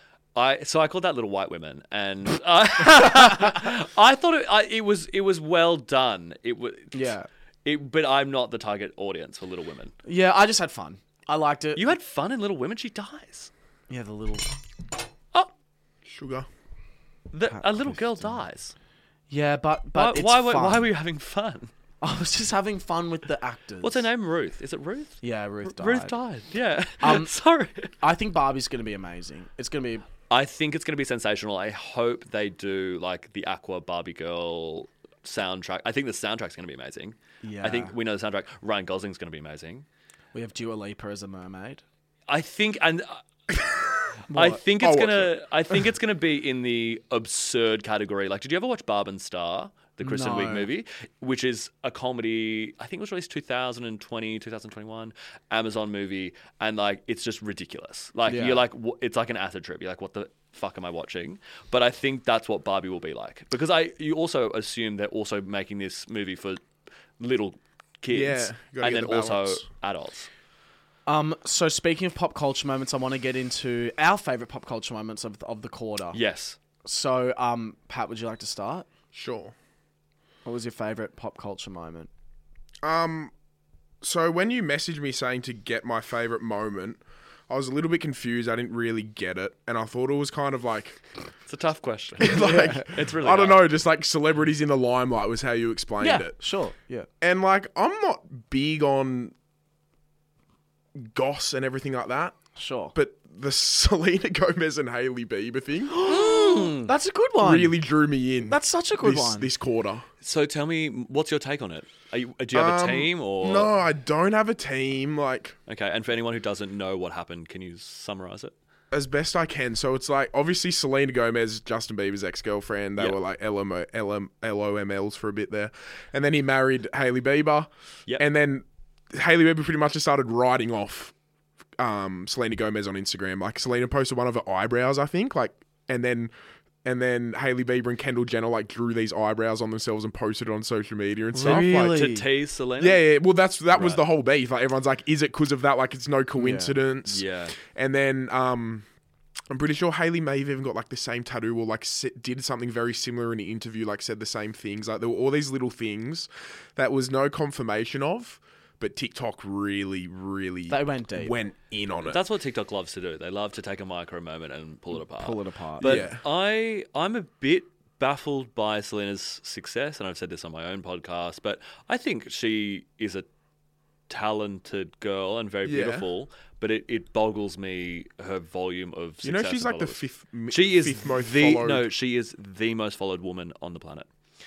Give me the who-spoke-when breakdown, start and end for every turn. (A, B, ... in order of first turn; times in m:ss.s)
0:00.4-0:07.1 A
0:06.9-0:07.3 B
0:07.6-0:09.9 A
0:10.0-0:11.9 B
0:11.8-0:13.5 A
0:13.9-0:14.5 B
0:16.0-0:16.5 C
0:17.3-0:18.7 A
0:17.5-0:18.4 B
0:19.3-0:20.9 B
0:20.0-0:21.7 A
0:22.0-0:24.1 B
0:23.8-0:27.9 A
0:25.2-0:26.2 B
0:27.0-0:27.3 B
0:28.0-0:30.1 B
0:30.3-0:39.8 A
0:37.4-0:37.9 B
0:40.3-0:41.8 B
0:42.3-0:43.2 A
0:44.3-0:44.6 B
0:44.3-1:06.6 A
0:44.8-0:45.3 C
0:50.0-0:50.7 B
0:58.3-0:58.6 B
1:07.2-1:10.3 A
1:08.1-1:09.6 C
1:11.1-1:16.2 B
1:16.1-1:16.6 A
1:16.8-1:18.9 B
1:19.1-1:19.5 C
1:20.4-1:22.1 B
1:22.8-1:23.3 C
1:24.0-1:31.0 C
1:31.5-1:33.7 A
1:32.2-1:36.4 C
1:32.2-1:32.9 B
1:36.0-1:37.1 B
1:37.2-1:39.3 C
1:41.0-1:42.4 C
1:42.6-1:42.9 B
1:43.0-1:46.0 C
1:45.9-1:47.8 B
1:46.1-1:46.9 A
1:47.4-1:50.1 C
1:48.5-1:49.5 B
1:50.2-1:53.7 A
1:52.5-1:55.6 C
1:55.7-1:58.5 A
1:58.9-2:11.1 C
2:11.8-2:16.3 C
2:16.8-2:22.0 C
2:21.3-2:22.2 B
2:21.4-2:23.0 A
2:22.8-2:28.9 C
2:23.7-2:24.0 A
2:26.4-2:26.8 B
2:27.1-2:27.6 A
2:29.5-2:42.2 C
2:40.7-2:41.4 B
2:42.0-2:53.3 A
2:45.1-2:46.1 B
2:45.8-2:46.2 C
2:54.1-3:04.1 A
2:55.6-2:56.1 C
2:59.2-3:01.9 C